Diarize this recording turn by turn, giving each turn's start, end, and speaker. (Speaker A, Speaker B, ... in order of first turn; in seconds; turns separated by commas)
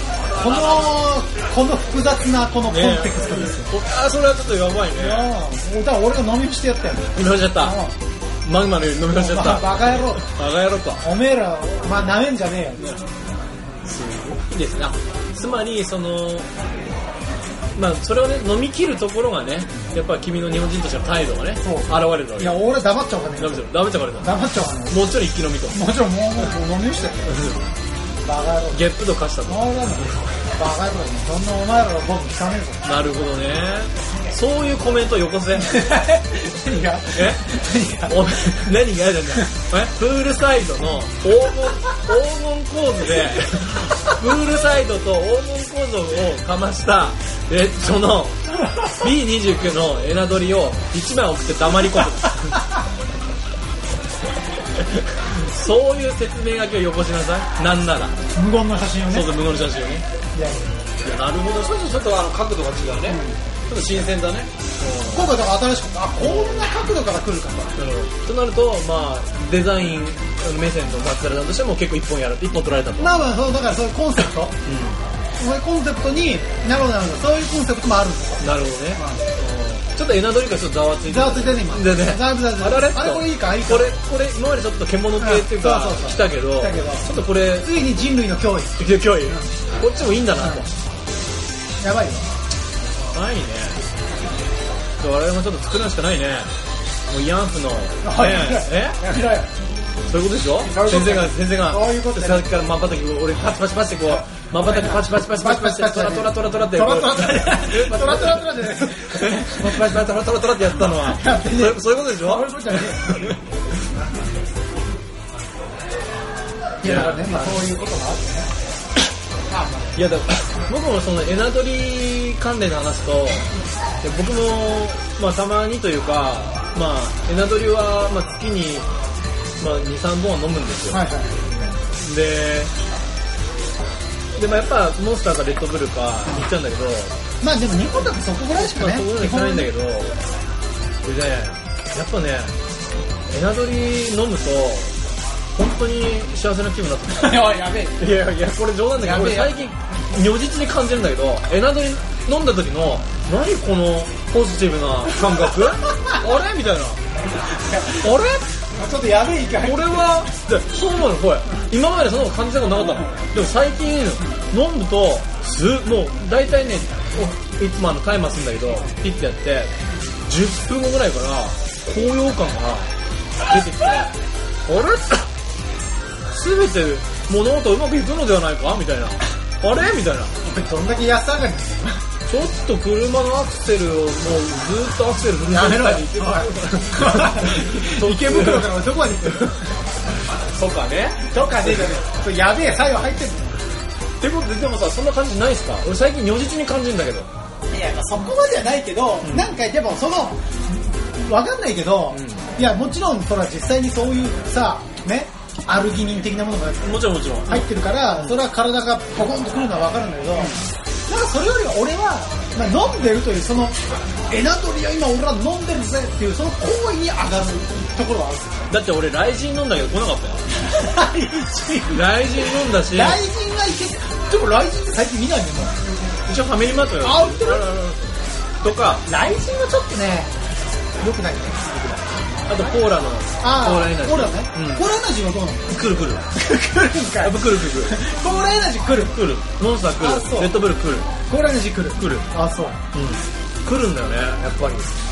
Speaker A: 0.3-0.9, Speaker B: 0.3-3.7, Speaker A: 2.7-5.3, Speaker B: 4.9-7.9, Speaker A: 7.2-7.8, Speaker A: 8.4-11.0, Speaker B: 9.1-10.3, Speaker B: 11.0-12.9, Speaker A: 13.8-16.5, Speaker A: 17.7-22.6, Speaker B: 21.6-25.1, Speaker A: 23.4-24.3, Speaker A: 24.9-25.8, Speaker B: 25.7-27.4, Speaker A: 27.3-27.6, Speaker B: 28.2-28.9, Speaker A: 28.7-30.2, Speaker B: 29.5-32.8, Speaker A: 32.8-35.8, Speaker B: 35.6-38.7, Speaker A: 37.1-37.4, Speaker A: 38.0-52.6, Speaker A: 55.0-58.2, Speaker B: 58.3-59.3, Speaker A: 59.1-60.0, Speaker B: 60.3-60.9, Speaker A: 61.0-65.3, Speaker B: 63.1-63.4, Speaker B: 65.1-67.7, Speaker A: 66.2-66.7, Speaker A: 67.8-73.2, Speaker B: 73.0-74.5, Speaker A: 74.7-75.0, Speaker B: 75.4-79.2, Speaker A: 78.4-87.7, Speaker B: 81.0-84.0, Speaker B: 85.2-89.5, Speaker A: 88.8-90.7, Speaker B: 90.4-90.6, Speaker B: 91.8-92.3, Speaker A: 93.1-93.8, Speaker A: 95.0-96.5, Speaker A: 97.1-99.0, Speaker B: 98.0-99.5, Speaker A: 100.1-113.4, Speaker B: 100.6-102.5, Speaker B: 104.6-110.0, Speaker B: 111.0-113.2, Speaker B: 116.8-118.5, Speaker A: 116.8-117.6, Speaker B: 119.5-119.9, Speaker A: 119.9-123.5, Speaker A: 124.0-128.9, Speaker A: 129.6-132.7, Speaker B: 130.9-131.4, Speaker A: 134.4-137.1, Speaker B: 137.4-139.7, Speaker A: 138.6-140.2, Speaker A: 141.0-142.5, Speaker A: 143.3-144.9, Speaker A: 145.5-147.4, Speaker B: 147.2-148.1, Speaker A: 148.0-157.0, Speaker B: 149.0-149.7, Speaker B: 157.5-158.1, Speaker A: 158.0-158.4, Speaker B: 158.7-160.0, Speaker A: 159.6-169.7, Speaker A: 170.3-172.9, Speaker A: 173.4-174.1, Speaker A: 174.7-175.3, Speaker A: 176.3-180.3, Speaker B: 180.4-182.0, Speaker A: 182.3-188.7, Speaker B: 185.5-189.7, Speaker A: 190.5-191.3, Speaker B: 191.3-193.6, Speaker A: 194.2-197.3, Speaker B: 197.7-218.6, Speaker A: 199.2-199.5, Speaker A: 202.1-202.4, Speaker A: 206.8-208.3, Speaker A: 218.7-220.4, Speaker B: 220.6-225.7, Speaker A: 221.9-223.2, Speaker A: 226.3-228.1, Speaker B: 227.0-227.8, Speaker A: 228.6-229.0, Speaker B: 229.0-230.3, Speaker B: 231.0-232.7, Speaker A: 232.5-234.9, Speaker B: 233.4-235.7, Speaker A: 235.7-236.2, Speaker B: 236.3-239.2, Speaker A: 237.2-238.0, Speaker A: 239.1-241.1, Speaker B: 240.0-240.6, Speaker B: 241.3-242.8, Speaker A: 242.0-242.3, Speaker A: 242.9-244.9